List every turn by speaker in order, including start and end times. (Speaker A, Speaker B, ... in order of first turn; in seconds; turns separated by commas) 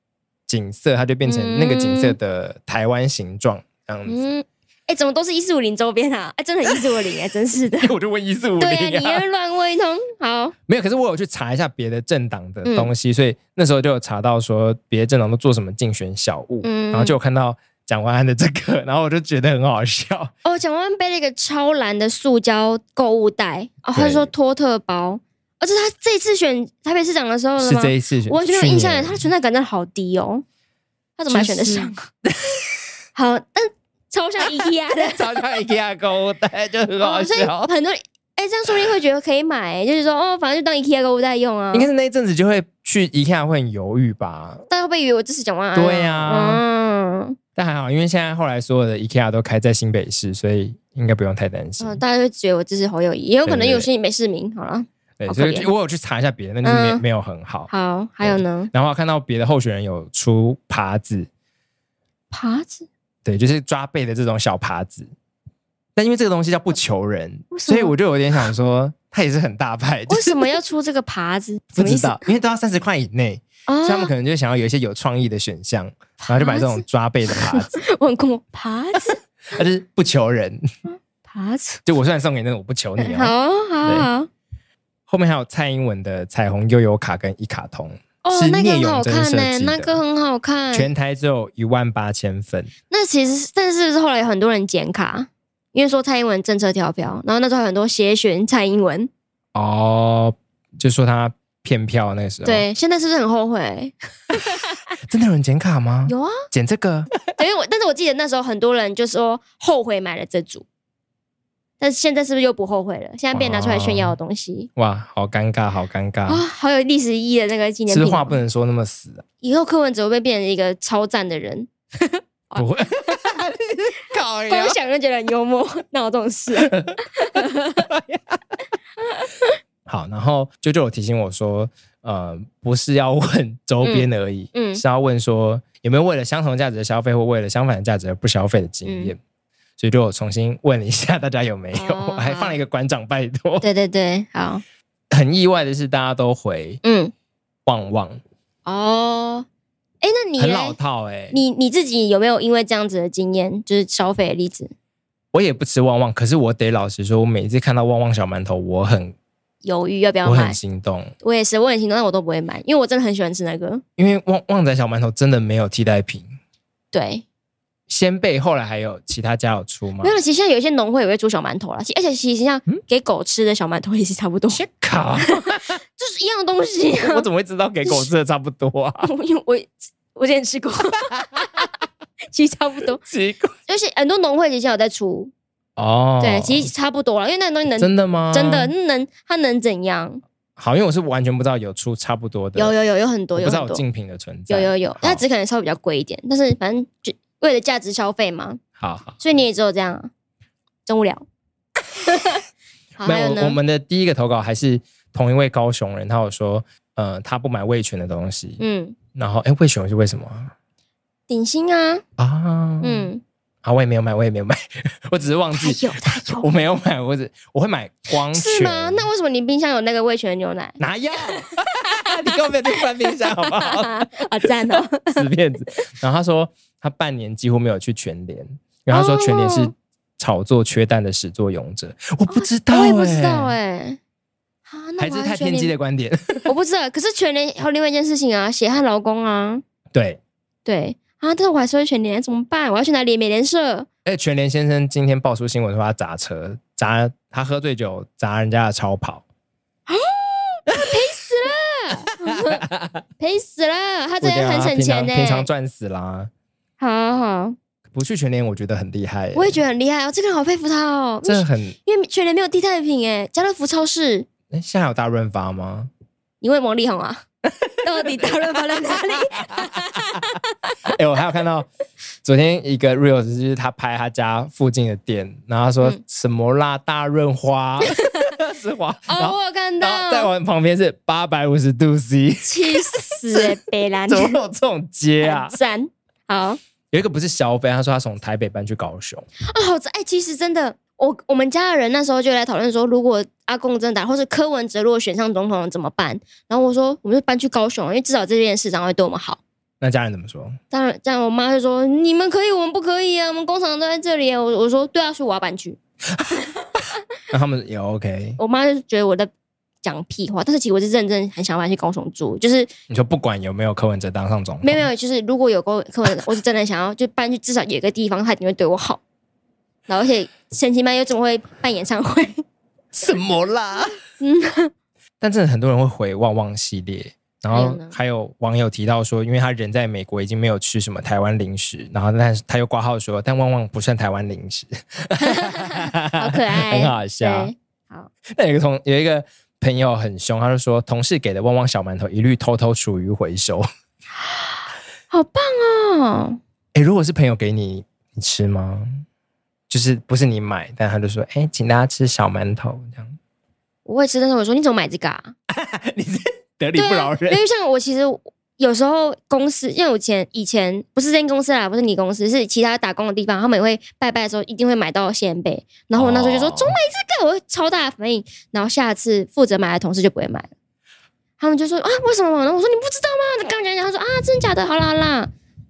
Speaker A: 0.5-4.2, Speaker B: 1.2-2.1, Speaker B: 4.1-7.9, Speaker A: 7.8-9.2, Speaker B: 8.6-10.5, Speaker A: 10.7-20.3, Speaker B: 12.6-12.9, Speaker B: 16.6-17.2, Speaker B: 20.4-30.4, Speaker A: 23.9-24.3, Speaker A: 27.6-29.2, Speaker B: 31.2-32.1, Speaker A: 31.3-32.8, Speaker B: 33.1-35.4, Speaker A: 35.0-37.7, Speaker B: 37.0-41.9, Speaker A: 41.7-44.6, Speaker B: 44.7-47.4, Speaker A: 45.7-46.6, Speaker A: 47.5-52.0, Speaker B: 51.8-55.7, Speaker A: 53.5-53.9, Speaker A: 55.2-57.7, Speaker B: 56.6-57.0, Speaker B: 57.7-58.7, Speaker A: 58.2-61.3, Speaker B: 62.3-62.9, Speaker A: 63.2-65.1, Speaker A: 66.0-70.5, Speaker B: 67.5-67.9, Speaker B: 70.1-72.2, Speaker A: 71.7-77.8, Speaker B: 73.7-74.1, Speaker B: 76.2-79.2, Speaker A: 79.5-80.6, Speaker B: 80.9-81.8, Speaker A: 81.8-84.1, Speaker B: 83.0-84.3, Speaker A: 85.1-90.0, Speaker B: 88.2-90.9, Speaker A: 90.7-92.7, Speaker B: 92.9-99.1, Speaker A: 99.5-102.7, Speaker B: 102.4-104.8, Speaker A: 105.0-107.1, Speaker B: 106.1-106.4, Speaker B: 107.3-110.6, Speaker B: 111.8-114.7, Speaker A: 113.3-114.2, Speaker A: 114.8-116.4, Speaker B: 116.3-118.4, Speaker A: 117.9-119.2, Speaker B: 119.4-123.2, Speaker A: 122.5-124.8, Speaker B: 124.5-127.9, Speaker A: 126.6-128.4, Speaker B: 129.1-129.5, Speaker A: 129.8-139.2, Speaker B: 133.8-134.8, Speaker B: 138.8-139.1, Speaker A: 139.8-143.7, Speaker B: 141.7-142.6, Speaker B: 143.6-144.6, Speaker A: 145.1-146.8, Speaker B: 146.8-147.1, Speaker A: 147.7-148.2, Speaker B: 148.7-149.5, Speaker B: 150.0-150.8, Speaker A: 150.4-151.4, Speaker B: 151.3-154.7, Speaker A: 155.3-159.1, Speaker B: 159.6-160.6, Speaker A: 160.2-161.1, Speaker B: 161.2-163.8, Speaker A: 164.0-166.3, Speaker B: 166.9-167.2, Speaker A: 167.9-170.2, Speaker B: 170.0-174.6, Speaker A: 174.5-175.8, Speaker B: 175.2-177.3, Speaker A: 177.0-179.1, Speaker B: 179.0-181.7, Speaker A: 181.1-181.4, Speaker B: 182.3-183.0, Speaker A: 183.0-183.5, Speaker B: 183.7-185.3, Speaker A: 185.8-186.7, Speaker B: 186.2-190.2, Speaker A: 187.8-188.7, Speaker A: 190.6-192.7, Speaker B: 192.6-193.8, Speaker A: 193.3-195.2, Speaker B: 194.5-198.6, Speaker A: 198.8-199.2, Speaker B: 199.2-200.1, Speaker B: 200.8-201.2, Speaker B: 202.0-202.4, Speaker B: 203.0-203.6, Speaker A: 203.0-208.6, Speaker B: 208.6-209.0, Speaker A: 209.1-210.5, Speaker B: 211.3-212.0, Speaker A: 212.2-213.1, Speaker B: 212.8-213.2, Speaker A: 213.6-219.1, Speaker B: 215.5-216.5, Speaker B: 218.3-221.5, Speaker A: 220.8-233.5, Speaker B: 223.1-225.2, Speaker B: 228.9-229.7, Speaker B: 232.3-234.0, Speaker B: 234.7-235.7, Speaker A: 235.0-236.5, Speaker B: 236.5-239.6, Speaker A: 239.9-240.2, Speaker B: 240.7-243.9, Speaker A: 244.0-249.2, Speaker B: 249.9-252.6, Speaker A: 252.5-253.0, Speaker B: 253.2-255.5, Speaker A: 254.2-256.3, Speaker B: 256.8-257.6, Speaker A: 257.9-259.6, Speaker B: 259.3-264.3, Speaker A: 261.2-261.8, Speaker A: 264.5-265.9, Speaker B: 266.4-267.2, Speaker A: 267.6-269.8, Speaker B: 267.8-270.8, Speaker A: 270.9-271.7, Speaker A: 272.2-283.6, Speaker B: 277.8-278.3, Speaker B: 279.1-280.3, Speaker B: 282.4-284.4, Speaker A: 284.1-285.6, Speaker B: 285.2-286.6, Speaker A: 286.9-289.2, Speaker B: 289.4-299.4, Speaker A: 299.8-300.6, Speaker B: 300.7-305.8, Speaker A: 306.1-306.4, Speaker A: 307.3-308.4, Speaker B: 308.4-309.3, Speaker B: 309.8-312.7, Speaker A: 312.9-314.9, Speaker B: 314.6-319.0, Speaker B: 319.9-322.4, Speaker A: 322.9-323.9, Speaker B: 324.2-324.7, Speaker A: 325.2-337.5, Speaker B: 327.5-327.9, Speaker B: 335.2-338.1, Speaker A: 338.3-343.6, Speaker B: 344.2-346.4, Speaker A: 346.7-349.0, Speaker A: 349.7-353.2, Speaker B: 353.9-355.3, Speaker A: 355.5-357.4, Speaker B: 356.8-370.5, Speaker A: 365.9-366.8, Speaker B: 371.4-375.3